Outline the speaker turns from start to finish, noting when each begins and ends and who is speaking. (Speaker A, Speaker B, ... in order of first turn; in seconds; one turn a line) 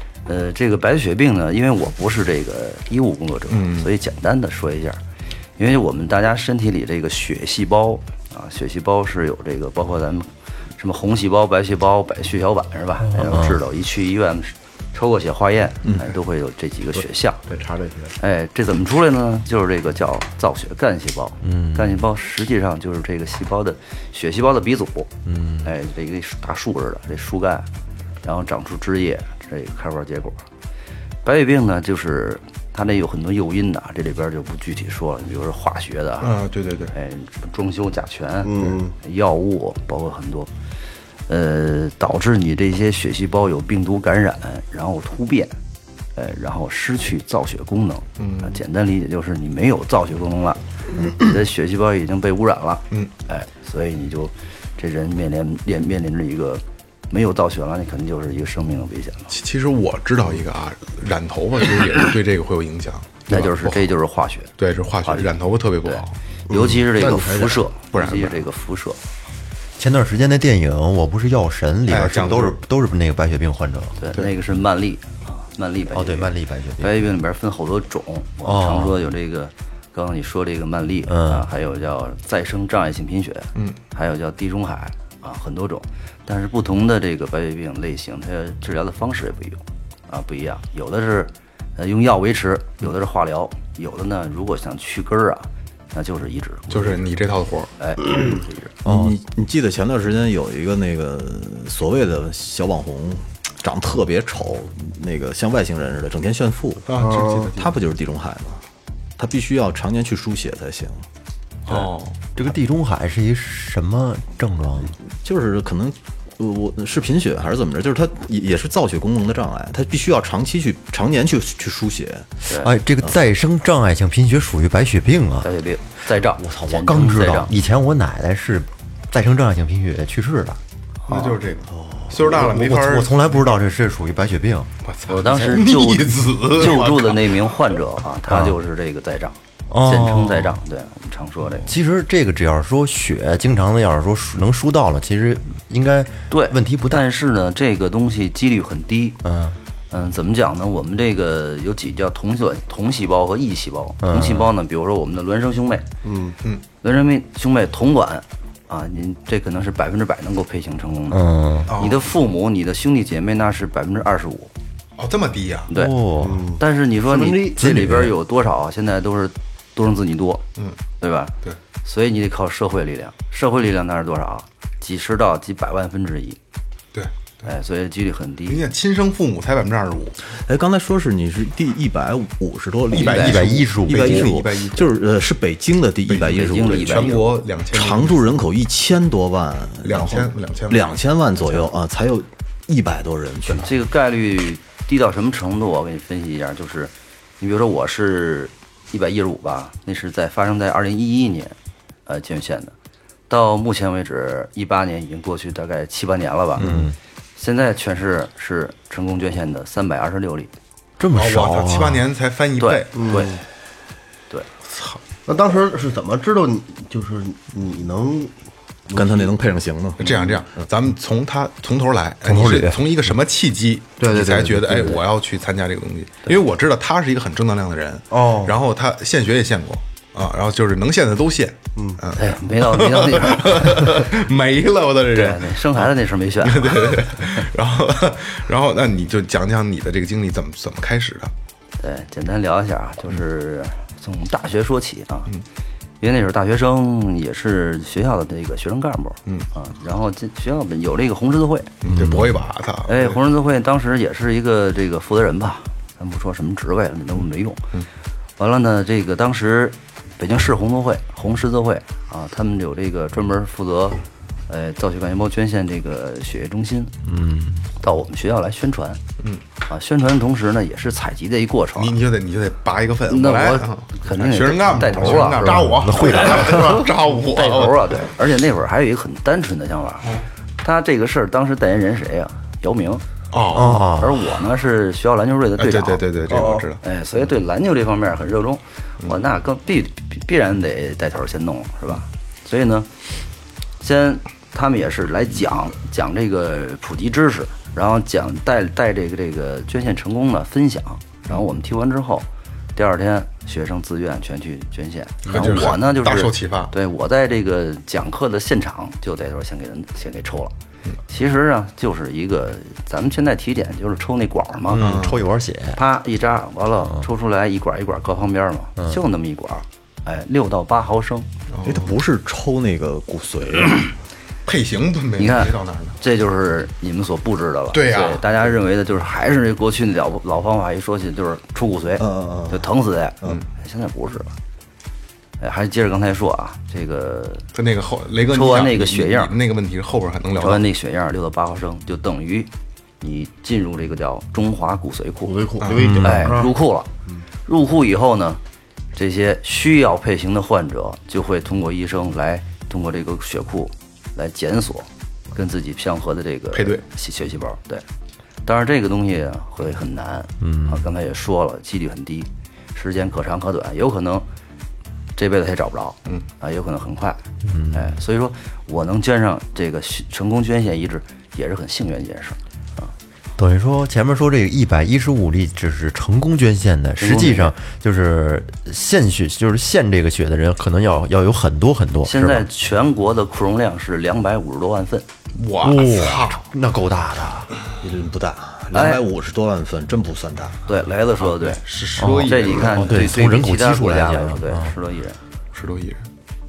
Speaker A: 0.2-5.0
Speaker B: 3.5-3.9
Speaker A: 5.6-17.4
Speaker C: 13.0-13.6
Speaker D: 15.8-16.1
Speaker E: 17.0-18.1
Speaker A: 18.2-25.1
Speaker C: 21.4-22.0
Speaker C: 25.2-25.7
Speaker A: 25.6-27.7
Speaker A: 28.2-30.4
Speaker A: 31.2-36.3
Speaker B: 36.2-36.9
Speaker A: 36.9-40.5
Speaker E: 38.4-38.9
Speaker A: 41.3-45.6
Speaker A: 46.2-59.3
Speaker B: 48.2-48.6
Speaker B: 59.3-63.9
Speaker A: 63.3-64.5
Speaker B: 64.6-66.2
Speaker A: 65.1-65.3
Speaker A: 65.8-69.0
Speaker E: 66.5-67.6
Speaker B: 67.9-68.5
Speaker C: 69.8-74.0
Speaker B: 71.9-72.6
Speaker A: 74.0-97.0
Speaker C: 75.9-76.9
Speaker C: 78.4-79.0
Speaker C: 81.1-81.5
Speaker B: 96.7-97.7
Speaker A: 97.8-98.7
Speaker C: 98.8-99.2
Speaker D: 98.8-106.9
Speaker B: 106.9-107.8
Speaker E: 107.0-107.5
Speaker D: 107.6-108.6
Speaker D: 109.2-111.1
Speaker B: 111.7-112.5
Speaker C: 112.4-114.9
Speaker D: 115.1-122.3
Speaker C: 122.5-125.5
Speaker A: 125.4-127.5
Speaker D: 126.4-127.3
Speaker C: 126.7-130.6
Speaker A: 131.1-131.3
Speaker B: 131.1-133.4
Speaker D: 131.7-132.4
Speaker C: 132.2-134.7
Speaker B: 134.8-137.5
Speaker A: 135.1-141.7
Speaker C: 135.2-135.7
Speaker C: 138.3-138.6
Speaker C: 139.7-140.6
Speaker C: 141.7-147.0
Speaker A: 146.3-149.2
Speaker C: 149.2-149.6
Speaker A: 149.9-155.9
Speaker C: 154.0-154.5
Speaker E: 156.0-156.4
Speaker A: 156.8-164.5
Speaker C: 161.1-161.7
Speaker B: 161.7-162.1
Speaker B: 165.0-165.7
Speaker A: 165.7-166.0
Speaker C: 165.7-166.5
Speaker E: 166.2-167.6
Speaker A: 166.6-170.4
Speaker C: 167.6-168.1
Speaker A: 171.0-171.3
Speaker A: 171.8-176.4
Speaker B: 176.9-177.5
Speaker A: 177.4-178.7
Speaker B: 178.5-180.2
Speaker D: 180.4-193.7
Speaker B: 182.9-184.9
Speaker A: 183.0-183.3
Speaker C: 183.1-184.5
Speaker B: 186.1-188.3
Speaker A: 186.2-187.3
Speaker B: 189.8-190.9
Speaker A: 193.6-201.6
Speaker A: 202.1-202.7
Speaker A: 203.3-206.8
Speaker C: 206.6-207.0
Speaker A: 207.4-210.5
Speaker C: 211.0-212.1
Speaker B: 211.1-213.1
Speaker A: 212.6-213.4
Speaker E: 212.9-213.4
Speaker B: 214.7-215.0
Speaker E: 215.2-218.3
Speaker E: 218.9-219.3
Speaker D: 218.9-220.0
Speaker B: 220.0-241.3
Speaker E: 220.0-220.3
Speaker C: 222.2-222.8
Speaker E: 224.0-225.0
Speaker E: 228.1-228.6
Speaker A: 232.2-234.0
Speaker A: 235.1-237.3
Speaker A: 241.8-245.3
Speaker A: 246.0-251.8
Speaker B: 251.8-253.2
Speaker C: 251.9-252.4
Speaker A: 252.9-257.6
Speaker A: 258.4-267.0
Speaker C: 267.1-267.6
Speaker A: 267.8-269.0
Speaker A: 269.6-271.9
Speaker B: 271.8-278.1
Speaker A: 273.1-275.6
Speaker E: 275.1-276.9
Speaker C: 275.7-276.9
Speaker A: 277.1-283.0
Speaker B: 283.3-283.9
Speaker C: 283.5-284.2
Speaker A: 283.7-286.0
Speaker B: 285.6-286.8
Speaker E: 286.3-286.7
Speaker A: 286.8-292.9
Speaker A: 293.8-310.5
Speaker B: 305.2-306.7
Speaker A: 311.1-314.8
Speaker C: 314.7-315.8
Speaker B: 314.8-315.2
Speaker A: 315.8-321.3
Speaker B: 321.5-321.9
Speaker D: 321.6-323.8
Speaker B: 324.4-326.0
Speaker A: 325.2-334.4
Speaker B: 327.7-328.2
Speaker D: 332.0-332.7
Speaker A: 335.4-337.5
Speaker B: 337.5-340.6
Speaker A: 338.3-339.3
Speaker A: 340.4-342.5
Speaker A: 343.0-345.4
Speaker E: 345.2-346.5
Speaker B: 345.6-346.0
Speaker C: 345.8-346.4
Speaker A: 346.0-346.9
Speaker A: 347.5-348.4
Speaker A: 348.9-357.8
Speaker B: 356.5-356.8
Speaker A: 358.5-364.2
Speaker C: 360.4-360.9
Speaker A: 365.2-367.2
Speaker C: 367.4-368.0
Speaker A: 367.7-372.9
Speaker C: 373.4-382.5
Speaker A: 377.0-377.5
Speaker A: 382.0-385.1
Speaker B: 385.3-386.5
Speaker C: 385.6-387.5
Speaker D: 387.8-390.6
Speaker A: 388.7-389.0
Speaker A: 390.7-391.6
Speaker B: 391.3-392.9
Speaker C: 392.0-394.8
Speaker A: 392.1-395.2
Speaker B: 395.5-396.0